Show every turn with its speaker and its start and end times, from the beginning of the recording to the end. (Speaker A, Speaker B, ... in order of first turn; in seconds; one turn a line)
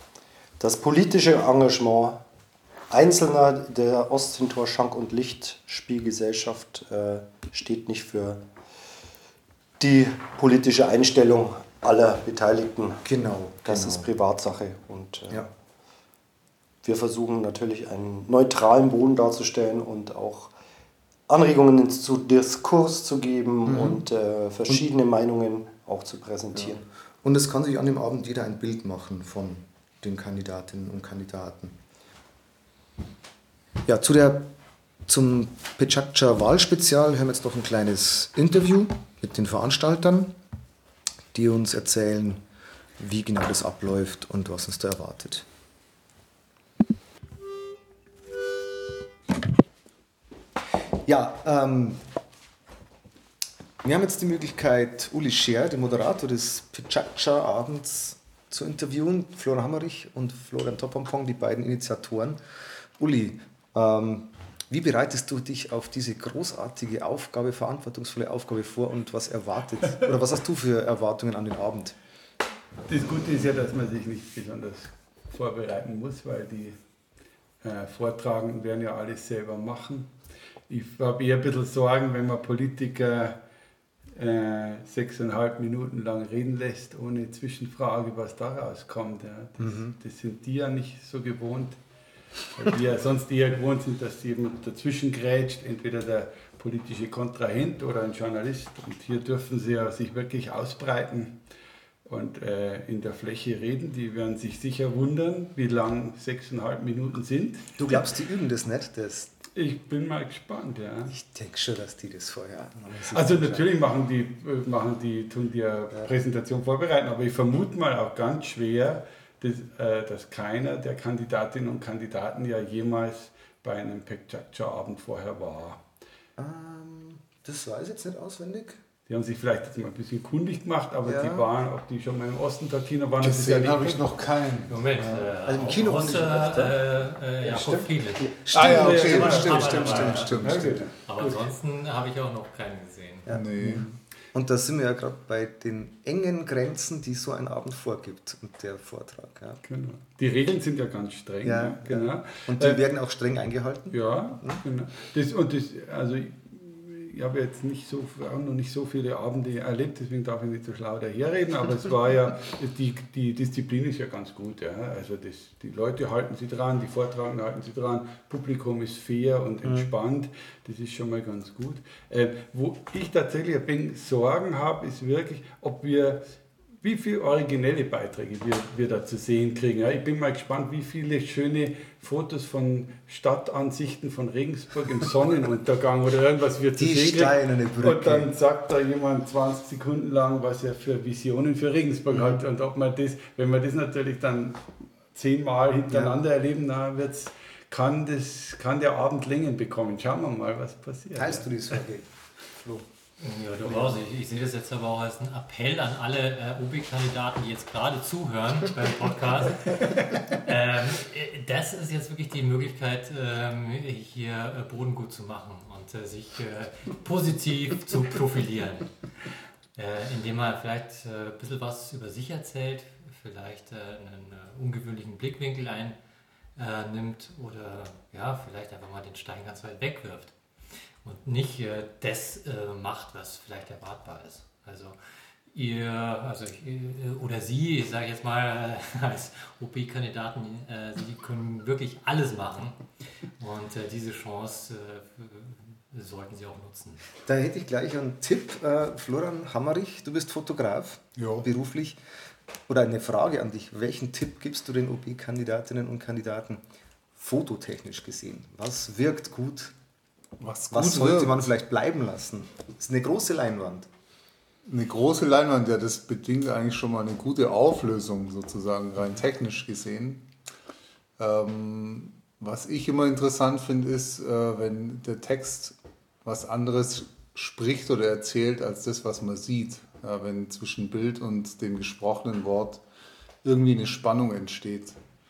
Speaker A: 0.6-2.2
Speaker A: 2.9-8.4
Speaker A: 9.8-13.0
Speaker B: 13.0-14.1
Speaker A: 13.6-15.5
Speaker A: 16.8-20.5
Speaker A: 21.3-26.8
Speaker B: 23.7-24.0
Speaker B: 26.5-31.8
Speaker B: 33.8-34.5
Speaker B: 35.1-40.4
Speaker B: 41.3-42.4
Speaker B: 43.0-45.5
Speaker B: 51.0-52.0
Speaker B: 53.8-62.4
Speaker B: 63.0-72.0
Speaker C: 72.8-76.8
Speaker C: 77.6-80.1
Speaker C: 80.7-83.4
Speaker C: 84.1-91.8
Speaker B: 89.6-90.0
Speaker C: 92.5-101.4
Speaker C: 102.0-107.7
Speaker B: 107.8-109.3
Speaker C: 109.5-111.1
Speaker B: 111.1-113.7
Speaker C: 113.1-125.8
Speaker B: 126.4-128.8
Speaker C: 129.1-134.2
Speaker B: 131.0-131.4
Speaker D: 133.2-134.8
Speaker E: 134.7-143.3
Speaker B: 135.0-136.8
Speaker B: 138.4-139.5
Speaker D: 138.5-140.8
Speaker C: 138.6-141.5
Speaker B: 143.2-149.6
Speaker D: 143.3-143.9
Speaker C: 149.6-152.8
Speaker B: 151.4-154.6
Speaker C: 153.9-176.2
Speaker B: 169.6-169.9
Speaker C: 176.8-201.5
Speaker B: 186.8-188.3
Speaker B: 201.1-202.8
Speaker E: 203.2-218.9
Speaker E: 219.7-226.0
Speaker E: 226.6-230.3
Speaker E: 231.0-235.0
Speaker E: 235.5-247.0
Speaker B: 247.2-252.0
Speaker D: 251.2-251.5
Speaker B: 252.7-256.6
Speaker B: 257.1-259.7
Speaker D: 260.4-261.4
Speaker B: 260.7-263.9
Speaker D: 264.6-270.2
Speaker D: 271.2-282.8
Speaker D: 283.4-285.0